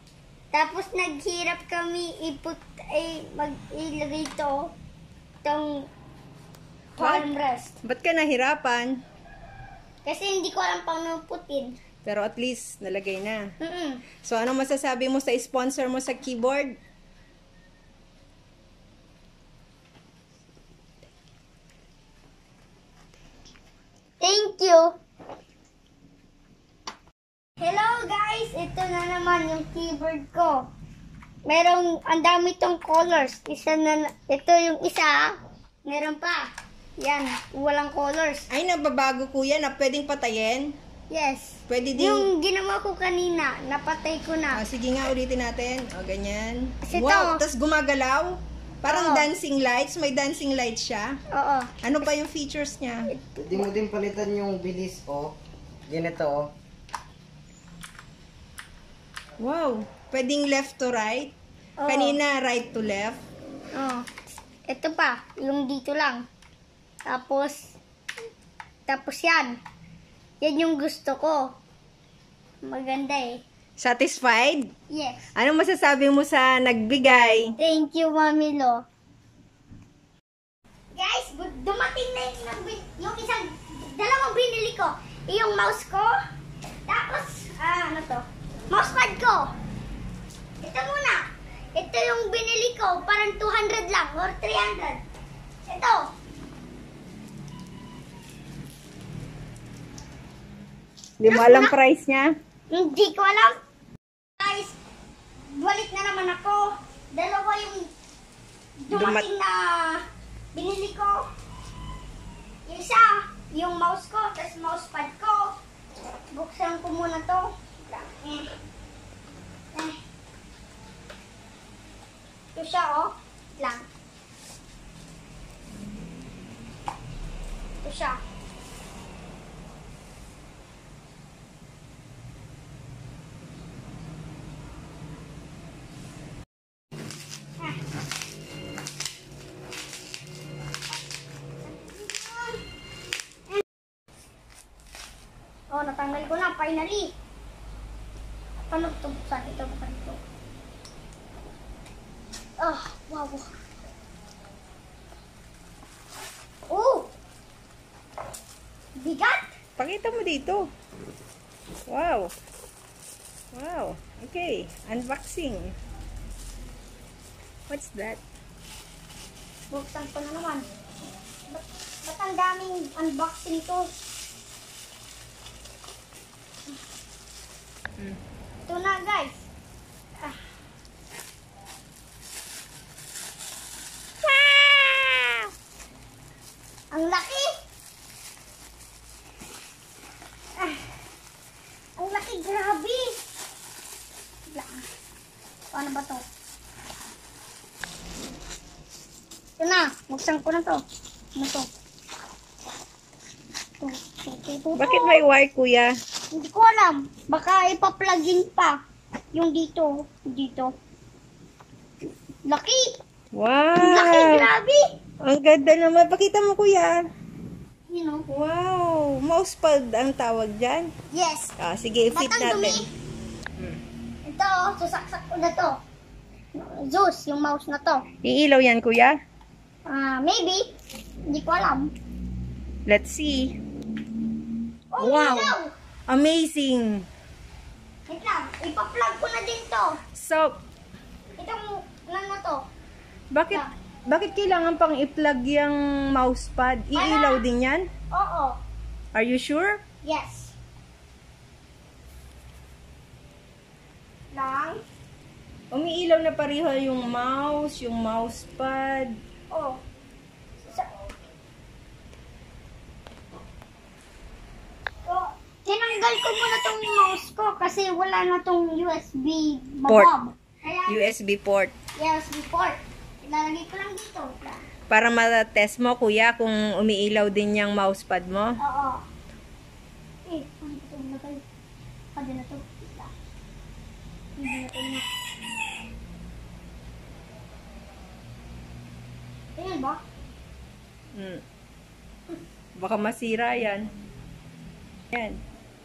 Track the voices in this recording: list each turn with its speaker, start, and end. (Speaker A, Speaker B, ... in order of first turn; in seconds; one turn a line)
Speaker A: 0.5-4.7
Speaker A: 5.4-5.9
Speaker A: 6.9-7.8
Speaker B: 7.0-7.3
Speaker B: 7.8-9.0
Speaker A: 10.0-11.8
Speaker B: 12.0-13.5
Speaker A: 13.6-14.0
Speaker B: 14.2-16.8
Speaker A: 24.2-24.9
Speaker A: 27.6-30.7
Speaker A: 31.4-38.5
Speaker B: 38.5-40.8
Speaker A: 41.1-44.6
Speaker B: 41.7-42.3
Speaker B: 44.5-51.2
Speaker A: 46.8-47.4
Speaker A: 48.8-49.3
Speaker A: 51.3-51.7
Speaker B: 51.8-53.1
Speaker A: 53.1-53.7
Speaker C: 53.4-55.3
Speaker C: 55.9-56.5
Speaker B: 59.4-61.4
Speaker A: 61.8-62.2
Speaker B: 61.9-63.2
Speaker A: 63.7-64.1
Speaker A: 64.7-66.2
Speaker A: 67.1-67.7
Speaker A: 68.9-69.6
Speaker A: 70.4-71.5
Speaker A: 72.6-73.4
Speaker B: 73.8-74.7
Speaker A: 74.9-75.3
Speaker B: 75.3-77.5
Speaker A: 77.5-78.8
Speaker A: 80.9-86.2
Speaker A: 86.9-89.5
Speaker A: 90.6-95.0
Speaker A: 95.7-96.1
Speaker B: 101.2-102.3
Speaker A: 101.2-101.7
Speaker A: 102.7-103.5
Speaker A: 104.4-104.8
Speaker A: 105.5-107.9
Speaker A: 108.8-111.2
Speaker B: 108.9-109.3
Speaker A: 112.7-115.5
Speaker A: 116.3-118.5
Speaker A: 119.7-120.0
Speaker A: 122.5-123.9
Speaker A: 127.8-128.2
Speaker A: 141.6-142.6
Speaker A: 145.7-147.1
Speaker A: 148.7-150.2
Speaker A: 152.6-153.5
Speaker A: 156.7-157.1
Speaker A: 159.0-159.5
Speaker B: 159.8-160.7
Speaker B: 161.9-162.3
Speaker B: 163.5-165.7
Speaker B: 167.7-168.2
Speaker A: 169.7-170.7
Speaker A: 171.5-173.9
Speaker A: 178.7-179.5
Speaker A: 184.2-185.4
Speaker A: 186.9-187.5
Speaker A: 190.6-190.9
Speaker A: 192.0-193.2
Speaker A: 194.5-194.9
Speaker A: 195.7-196.2
Speaker A: 199.6-200.8
Speaker A: 201.3-201.7
Speaker A: 203.8-205.2
Speaker B: 204.8-205.9
Speaker A: 206.3-208.8
Speaker A: 209.3-210.7
Speaker A: 212.4-212.9
Speaker B: 213.3-214.5
Speaker A: 213.8-214.8
Speaker B: 215.2-217.0
Speaker A: 217.9-218.2
Speaker B: 218.3-220.9
Speaker A: 221.1-221.5
Speaker B: 221.6-222.9
Speaker A: 222.1-222.9
Speaker A: 224.2-225.8
Speaker A: 226.5-228.0
Speaker B: 228.2-229.2
Speaker A: 229.9-230.7
Speaker A: 231.3-231.9
Speaker B: 232.9-233.6
Speaker A: 234.9-235.7
Speaker B: 235.0-235.5
Speaker B: 236.1-237.1
Speaker A: 238.1-240.0
Speaker B: 240.2-240.6
Speaker A: 241.4-242.7
Speaker B: 243.3-247.9
Speaker A: 246.9-247.4
Speaker A: 248.1-248.6
Speaker B: 249.1-249.8
Speaker A: 250.0-250.6
Speaker A: 254.3-254.8
Speaker B: 255.7-259.1
Speaker A: 259.5-259.8
Speaker A: 265.1-271.1
Speaker B: 270.9-271.7
Speaker A: 272.0-274.6
Speaker B: 274.9-278.6
Speaker A: 278.6-279.0
Speaker A: 280.2-281.4
Speaker A: 282.1-283.1
Speaker A: 284.4-285.1
Speaker A: 289.6-290.0
Speaker B: 291.1-291.4
Speaker B: 292.8-293.9
Speaker B: 295.1-295.4